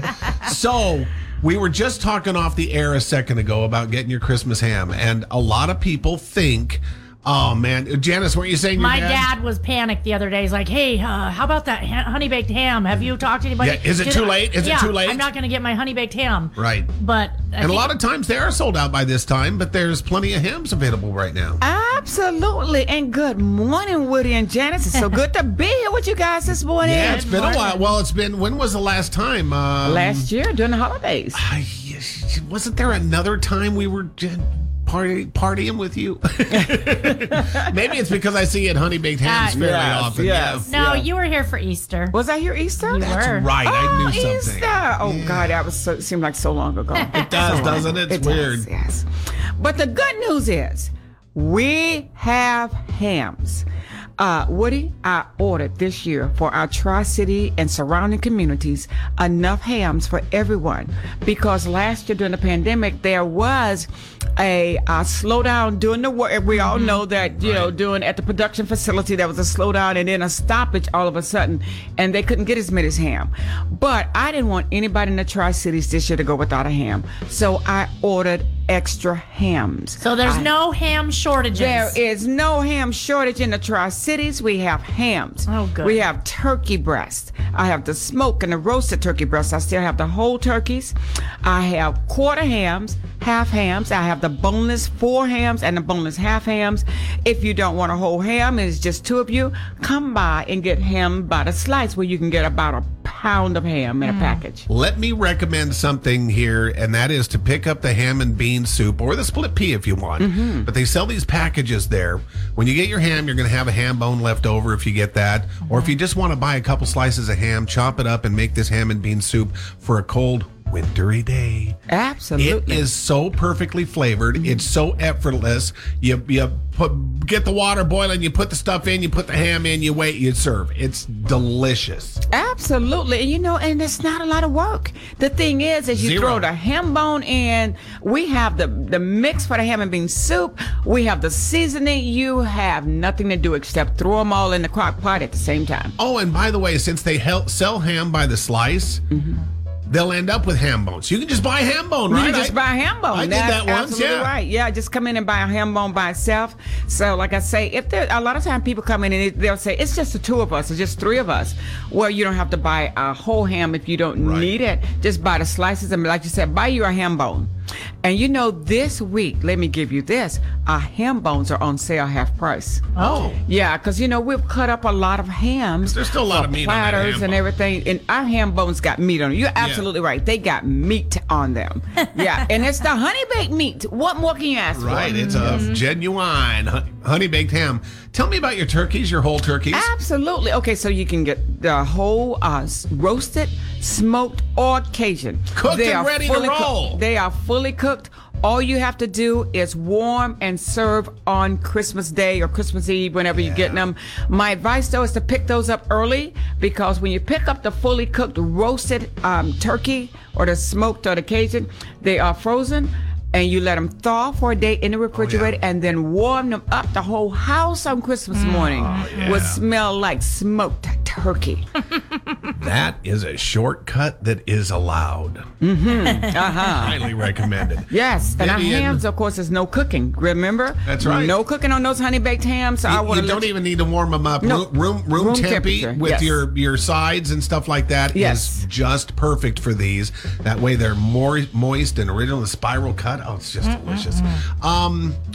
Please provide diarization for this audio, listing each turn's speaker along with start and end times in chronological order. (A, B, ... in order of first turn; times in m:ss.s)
0:00.3-0:09.3 A
0:08.8-0:17.9 B
0:13.6-0:15.3 A
0:16.6-0:16.9 A
0:17.6-0:21.6 A
0:21.6-0:27.3 C
0:26.8-0:30.3 A
0:27.0-0:27.9 B
0:29.8-0:31.4 C
0:31.4-0:40.7 A
0:36.5-0:37.7 C
0:39.2-0:39.6 B
0:39.6-0:41.1 C
0:40.7-0:42.1 B
0:42.1-0:43.1 C
0:42.9-0:43.5 B
0:42.9-0:45.6 A
0:43.6-0:53.7 C
0:47.1-0:47.6 B
0:47.1-0:48.7 A
0:54.2-1:20.5 C
1:06.5-1:07.0 B
1:07.4-1:07.7 A
1:20.0-1:22.0 B
1:21.5-1:44.7 C
1:25.5-1:26.0 B
1:44.0-1:44.4 B
1:44.7-2:01.8 A
1:50.2-1:50.7 C
2:01.9-2:02.9 C
2:02.4-2:12.2 A
2:12.3-2:26.0 C
2:15.9-2:16.5 A
2:26.0-2:29.0 A
2:29.1-2:29.4 C
2:29.9-2:32.6 A
2:32.1-2:47.5 C
2:33.1-2:34.3 A
2:44.2-2:44.5 A
2:48.0-3:05.7 C
2:53.0-2:53.3 B
2:53.0-2:53.4 A
2:55.8-2:57.4 A
2:59.6-2:59.9 A
3:04.8-3:09.9 A
3:05.1-3:05.8 B
3:09.7-3:41.7 C
3:15.5-3:17.0 A
3:23.3-3:23.9 A
3:35.1-3:35.5 A
3:38.4-3:39.4 B
3:38.7-3:39.6 A
3:42.6-3:45.5 A
3:45.6-3:47.0 C
3:46.7-3:49.0 A
3:47.9-3:53.5 C
3:50.8-3:51.4 A
3:52.9-4:05.2 A
3:54.4-3:56.4 C
3:58.1-3:58.6 C
4:03.6-4:04.4 B